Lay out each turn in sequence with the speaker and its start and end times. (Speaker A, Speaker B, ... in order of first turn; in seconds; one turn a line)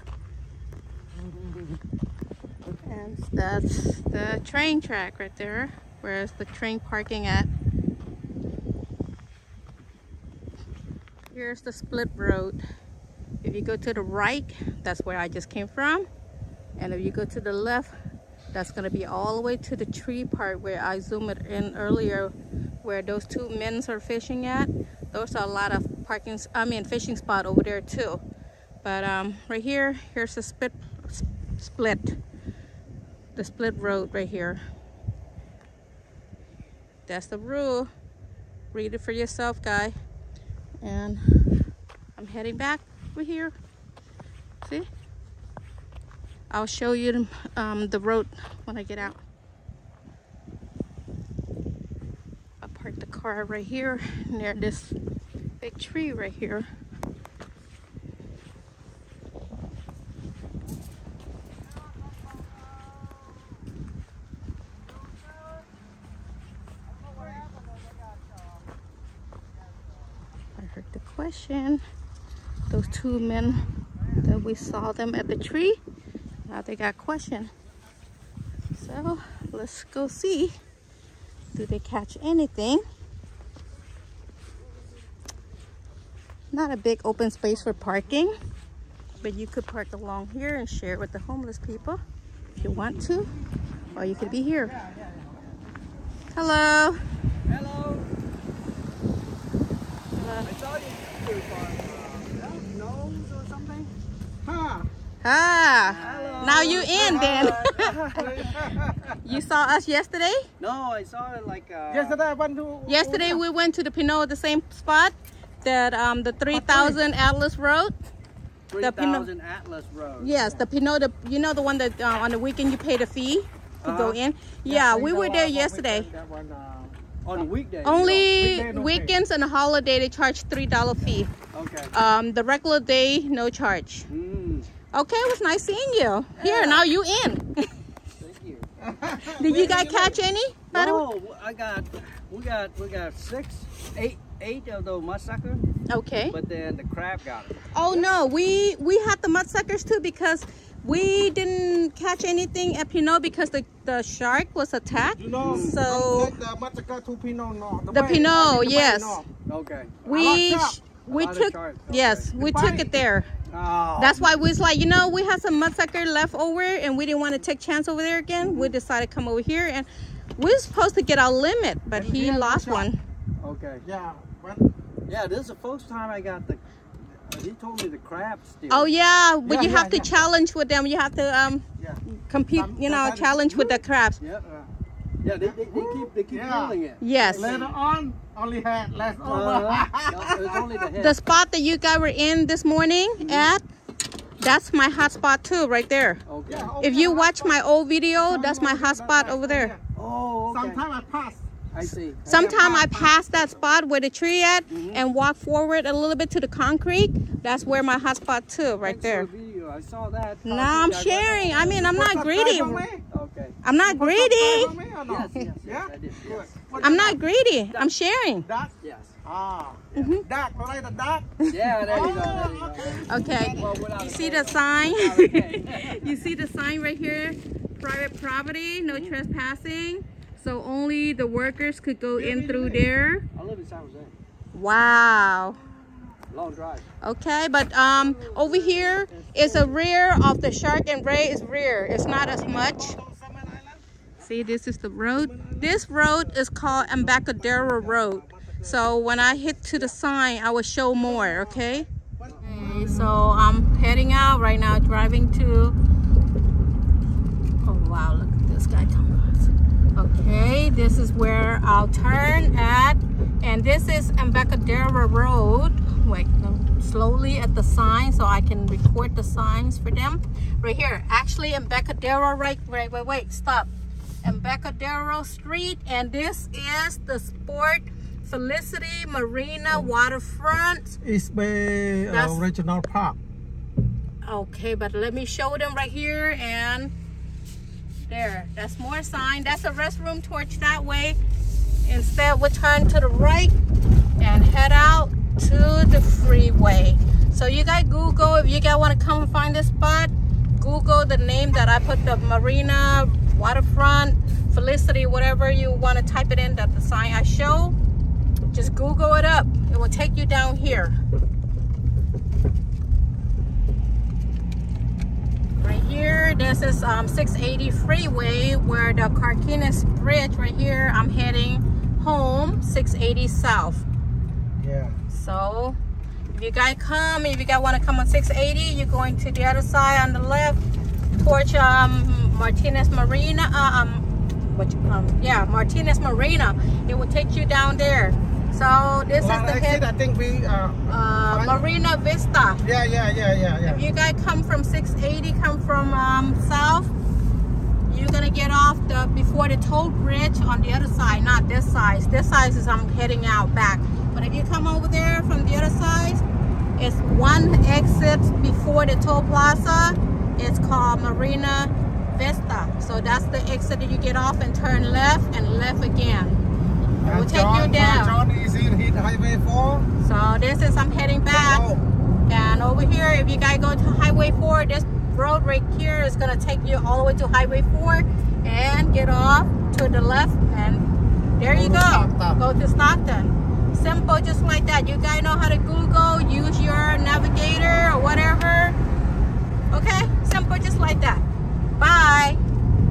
Speaker A: 2.8-7.5
Speaker A: 11.3-12.6
Speaker A: 13.4-16.1
Speaker A: 16.8-17.9
Speaker A: 18.5-28.2
Speaker A: 28.8-32.2
Speaker A: 33.4-34.6
Speaker A: 37.1-37.9
Speaker A: 38.7-40.0
Speaker A: 40.8-41.2
Speaker A: 42.2-43.5
Speaker A: 46.5-49.2
Speaker A: 52.6-55.0
Speaker A: 55.6-56.7
Speaker B: 67.2-67.6
Speaker A: 70.6-71.8
Speaker A: 72.7-73.7
Speaker A: 74.2-75.8
Speaker A: 76.5-77.5
Speaker A: 78.8-80.5
Speaker A: 81.5-82.8
Speaker A: 86.5-88.4
Speaker A: 89.2-92.0
Speaker A: 92.6-93.3
Speaker B: 92.6-93.3
Speaker B: 93.9-94.4
Speaker A: 94.0-94.8
Speaker A: 96.3-97.0
Speaker B: 97.5-98.1
Speaker A: 100.2-100.5
Speaker B: 100.4-103.9
Speaker C: 104.5-104.9
Speaker A: 105.2-108.0
Speaker B: 105.9-108.7
Speaker C: 106.0-109.1
Speaker A: 109.2-110.5
Speaker B: 110.6-112.2
Speaker C: 111.9-113.4
Speaker A: 112.9-117.9
Speaker C: 116.5-117.0
Speaker B: 118.7-120.5
Speaker A: 118.8-119.3
Speaker A: 120.2-126.1
Speaker B: 123.8-124.2
Speaker C: 124.7-127.4
Speaker B: 127.2-128.3
Speaker A: 127.8-131.3
Speaker C: 128.3-129.2
Speaker B: 131.5-131.9
Speaker A: 131.9-134.1
Speaker B: 134.1-134.7
Speaker A: 134.9-137.7
Speaker B: 136.4-136.9
Speaker B: 138.2-138.7
Speaker C: 138.8-140.2
Speaker A: 139.3-141.1
Speaker B: 140.7-145.6
Speaker A: 145.9-146.4
Speaker B: 146.3-147.6
Speaker A: 147.7-156.3
Speaker C: 155.2-159.3
Speaker B: 155.4-155.8
Speaker A: 157.9-159.2
Speaker B: 159.5-160.0
Speaker C: 160.1-160.8
Speaker A: 160.1-163.3
Speaker B: 161.1-162.3
Speaker C: 162.4-163.0
Speaker B: 163.5-164.4
Speaker A: 164.0-173.0
Speaker B: 168.4-168.7
Speaker C: 171.9-172.9
Speaker B: 173.4-173.8
Speaker C: 173.8-174.7
Speaker B: 175.1-176.6
Speaker B: 177.3-178.9
Speaker A: 178.7-184.2
Speaker C: 179.4-180.3
Speaker C: 182.6-183.8
Speaker B: 184.2-184.4
Speaker B: 185.2-187.8
Speaker C: 185.4-186.8
Speaker A: 187.0-187.5
Speaker C: 187.4-190.8
Speaker B: 189.2-191.2
Speaker A: 191.0-193.6
Speaker B: 193.2-193.5
Speaker A: 194.4-196.2
Speaker B: 196.3-196.7
Speaker C: 196.5-197.7
Speaker A: 196.8-199.7
Speaker C: 198.2-199.8
Speaker B: 199.9-200.8
Speaker C: 200.5-201.5
Speaker B: 201.7-202.7
Speaker A: 202.3-209.3
Speaker C: 202.3-203.2
Speaker B: 204.7-205.0
Speaker B: 208.8-211.8
Speaker A: 210.4-212.8
Speaker C: 211.9-213.0
Speaker B: 213.1-213.6
Speaker A: 213.6-214.7
Speaker C: 213.9-217.2
Speaker B: 215.1-217.1
Speaker A: 216.8-218.5
Speaker C: 218.4-218.7
Speaker B: 218.8-219.2
Speaker C: 219.2-223.7
Speaker A: 219.9-220.2
Speaker A: 221.4-233.2
Speaker B: 221.5-226.2
Speaker B: 228.9-229.2
Speaker B: 232.2-232.8
Speaker B: 233.4-234.1
Speaker A: 234.5-235.6
Speaker C: 235.1-236.2
Speaker B: 236.3-236.8
Speaker A: 237.0-243.0
Speaker B: 237.9-239.8
Speaker C: 242.3-243.8
Speaker A: 244.2-251.9
Speaker C: 245.2-248.9
Speaker C: 251.0-253.2
Speaker A: 252.4-255.8
Speaker A: 257.6-273.7
Speaker A: 274.2-281.0
Speaker C: 281.0-283.2
Speaker A: 282.1-282.4
Speaker A: 284.2-286.9
Speaker A: 288.1-291.2
Speaker A: 291.9-293.5
Speaker A: 294.2-307.8
Speaker A: 308.5-310.9
Speaker A: 315.6-323.9
Speaker C: 324.6-325.0
Speaker A: 325.1-325.8
Speaker A: 326.3-330.6
Speaker A: 331.2-339.8
Speaker C: 339.2-341.6
Speaker A: 340.9-342.6
Speaker C: 342.6-343.8
Speaker A: 343.6-346.9
Speaker A: 347.9-356.2
Speaker A: 356.8-366.4
Speaker C: 367.0-369.9
Speaker A: 367.1-368.2
Speaker A: 370.0-371.6
Speaker C: 371.3-371.9
Speaker A: 372.3-380.8
Speaker A: 381.4-388.8
Speaker C: 381.5-382.4
Speaker A: 389.7-391.2
Speaker A: 391.8-392.4